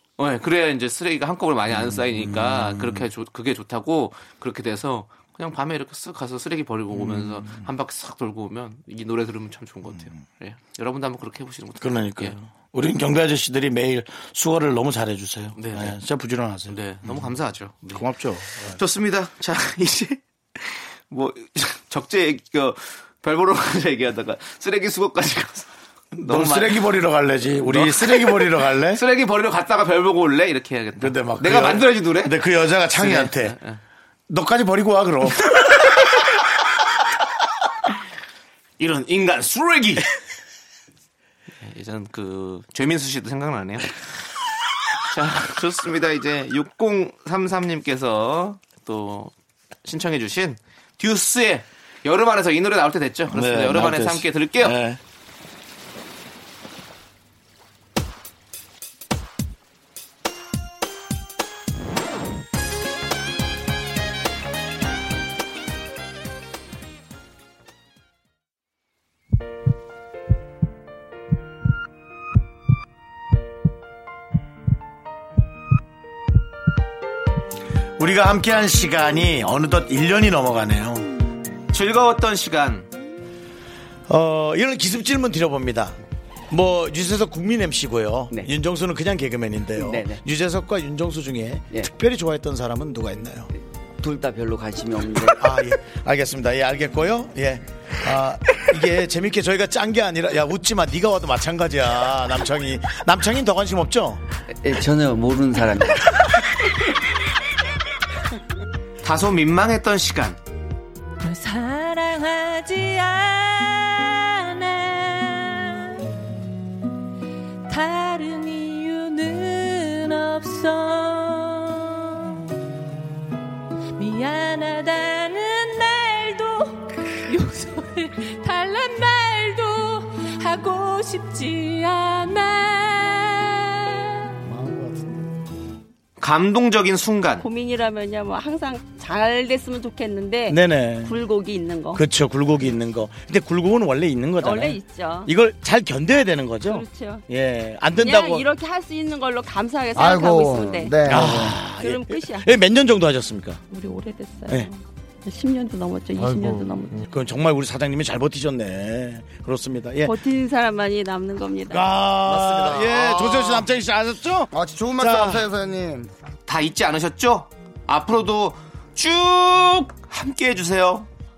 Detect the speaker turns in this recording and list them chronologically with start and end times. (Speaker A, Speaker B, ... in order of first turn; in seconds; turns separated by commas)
Speaker A: 0.2-12.4, Speaker B: 1.7-3.1, Speaker B: 6.9-7.7, Speaker B: 11.8-17.3, Speaker A: 15.6-16.0, Speaker A: 16.7-18.1, Speaker B: 17.9-18.8, Speaker A: 18.6-26.9, Speaker B: 26.1-29.0, Speaker A: 27.6-32.4, Speaker B: 31.0-33.5, Speaker A: 32.9-33.8, Speaker B: 34.3-36.2, Speaker A: 38.8-40.1, Speaker A: 41.6-44.0, Speaker A: 45.1-49.3, Speaker A: 49.8-54.8, Speaker B: 53.3-55.0, Speaker B: 78.0-81.1, Speaker A: 81.7-82.9, Speaker B: 84.1-86.0, Speaker B: 86.5-93.5, Speaker C: 89.8-90.2, Speaker C: 94.0-95.4, Speaker B: 95.4-104.2, Speaker C: 104.6-106.1, Speaker A: 109.0-110.4, Speaker D: 111.2-116.0, Speaker D: 117.7-122.4, Speaker D: 124.0-134.2, Speaker B: 134.4-135.2, Speaker A: 136.2-137.4, Speaker E: 137.4-142.0, Speaker B: 140.5-141.2, Speaker B: 141.9-148.5, Speaker E: 144.4-145.3, Speaker E: 146.6-147.2, Speaker E: 148.0-152.5, Speaker F: 149.9-151.6, Speaker B: 151.1-153.6, Speaker E: 153.7-157.0, Speaker B: 157.1-160.1, Speaker E: 160.0-161.9, Speaker B: 161.7-165.5, Speaker F: 162.3-163.5, Speaker F: 164.5-166.1, Speaker A: 166.5-171.1